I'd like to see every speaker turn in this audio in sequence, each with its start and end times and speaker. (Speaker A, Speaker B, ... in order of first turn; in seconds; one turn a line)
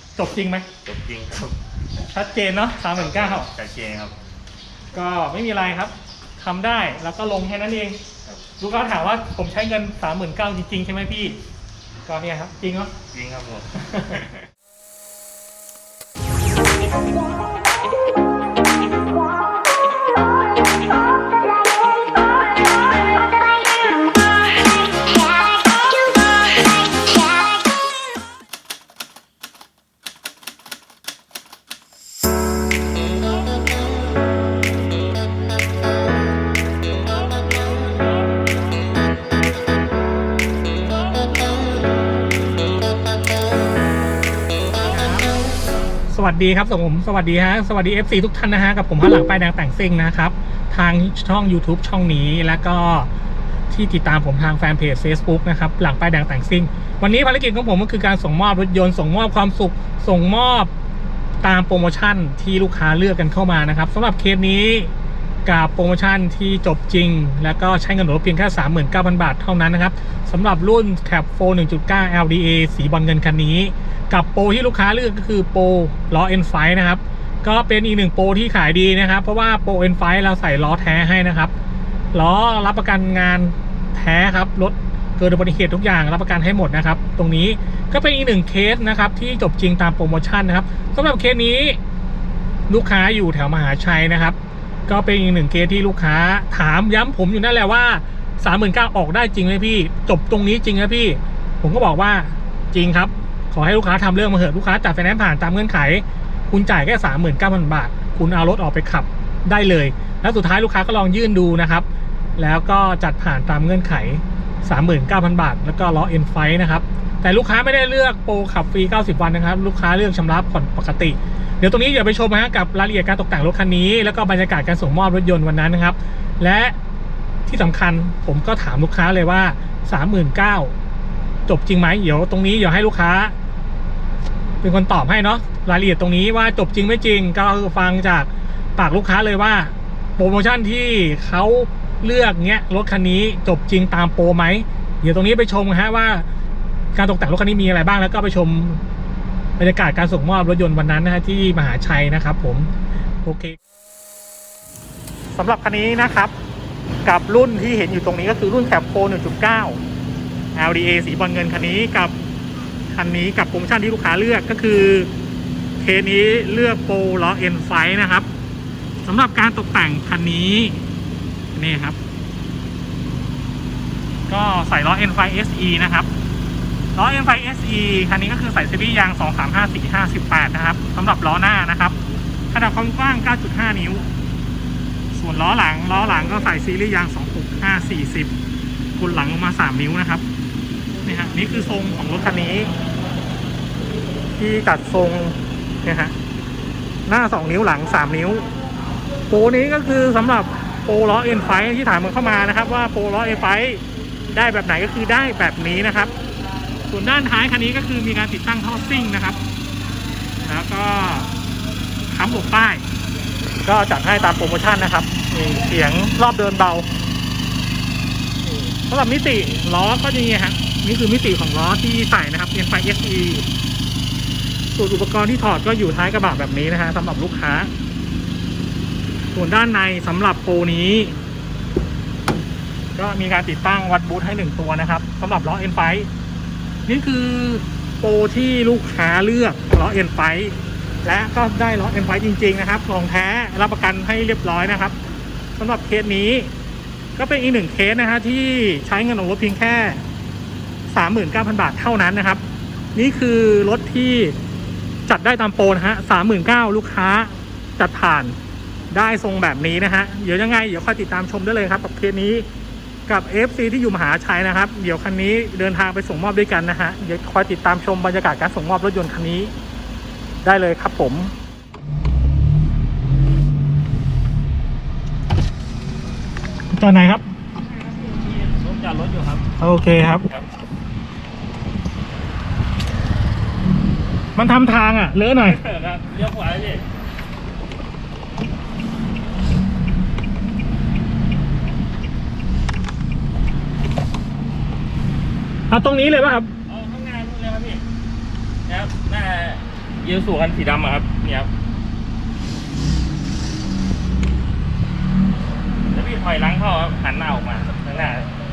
Speaker A: 0.1-0.7
Speaker B: 0.8-1.6
Speaker A: 2.0-3.5
Speaker B: 3.0-4.1
Speaker A: 4.9-8.0
Speaker A: 8.6-11.4
Speaker A: 12.1-12.9
Speaker B: 13.1-13.7
Speaker A: 13.8-14.2
Speaker A: 44.9-45.3
Speaker A: 46.1-53.1
Speaker A: 53.7-60.7
Speaker A: 61.4-64.9
Speaker A: 65.5-81.5
Speaker A: 82.1-91.8
Speaker A: 92.7-94.4
Speaker A: 94.9-111.8
Speaker A: 112.4-126.7
Speaker A: 127.5-130.7
Speaker A: 131.5-133.3
Speaker A: 134.6-146.2
Speaker A: 146.9-148.8
Speaker A: 149.6-152.7
Speaker A: 153.2-153.6
Speaker A: 155.3-156.3
Speaker A: 157.0-159.8
Speaker A: 160.6-162.1
Speaker A: 162.9-165.1
Speaker A: 165.8-168.3
Speaker A: 169.0-170.8
Speaker A: 171.5-172.0
Speaker A: 174.3-176.1
Speaker A: 176.9-182.0
Speaker A: 182.5-184.1
Speaker A: 185.1-188.3
Speaker A: 189.0-190.2
Speaker A: 191.0-192.7
Speaker A: 194.3-196.1
Speaker A: 197.1-198.5
Speaker A: 199.3-206.1
Speaker A: 206.9-209.4
Speaker A: 210.4-211.3
Speaker A: 212.1-212.8
Speaker A: 213.6-216.9
Speaker A: 218.4-223.5
Speaker A: 224.7-227.7
Speaker A: 229.3-231.2
Speaker A: 232.9-236.1
Speaker A: 236.8-244.9
Speaker A: 245.6-246.5
Speaker A: 247.2-250.0
Speaker A: 250.9-252.4
Speaker A: 252.9-254.3
Speaker A: 255.1-258.3
Speaker A: 258.9-262.4
Speaker A: 263.1-269.5
Speaker A: 270.4-271.3
Speaker A: 276.7-277.3
Speaker B: 277.6-279.5
Speaker A: 279.6-280.3
Speaker A: 284.3-285.6
Speaker B: 285.4-286.8
Speaker A: 295.7-296.5
Speaker B: 296.7-297.8
Speaker B: 298.7-301.5
Speaker B: 305.9-308.3